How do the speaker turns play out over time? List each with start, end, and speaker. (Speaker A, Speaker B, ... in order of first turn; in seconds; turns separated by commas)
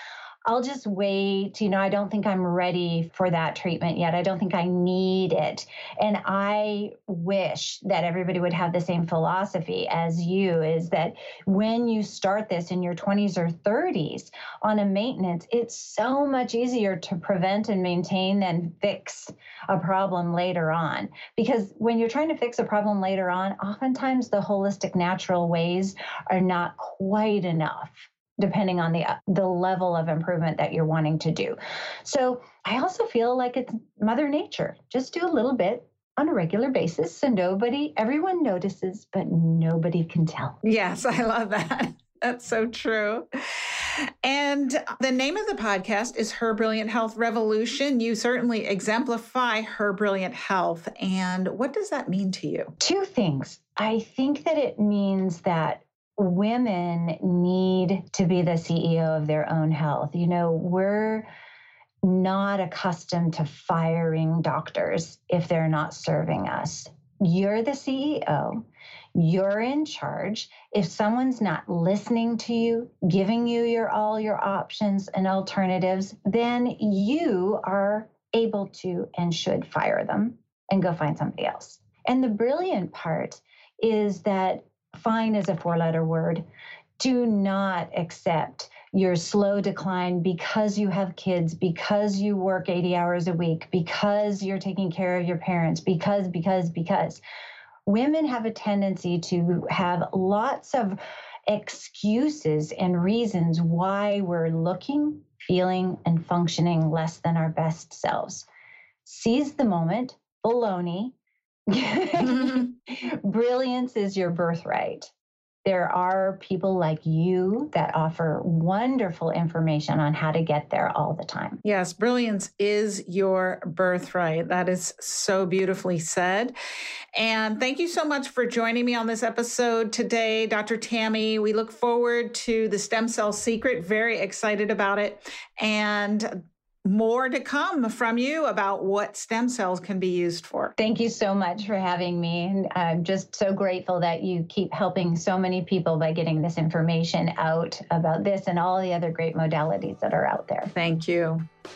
Speaker A: 0.5-40.6, Speaker B: 40.6-52.7, Speaker A: 52.8-61.3, Speaker A: 62.0-68.7, Speaker A: 69.2-86.4, Speaker A: 87.0-97.2, Speaker A: 97.8-108.5, Speaker A: 109.0-111.1, Speaker A: 111.7-115.1, Speaker B: 112.3-112.7, Speaker A: 115.6-121.6, Speaker B: 121.6-126.5, Speaker B: 127.1-140.7, Speaker A: 140.8-150.7, Speaker B: 150.7-151.4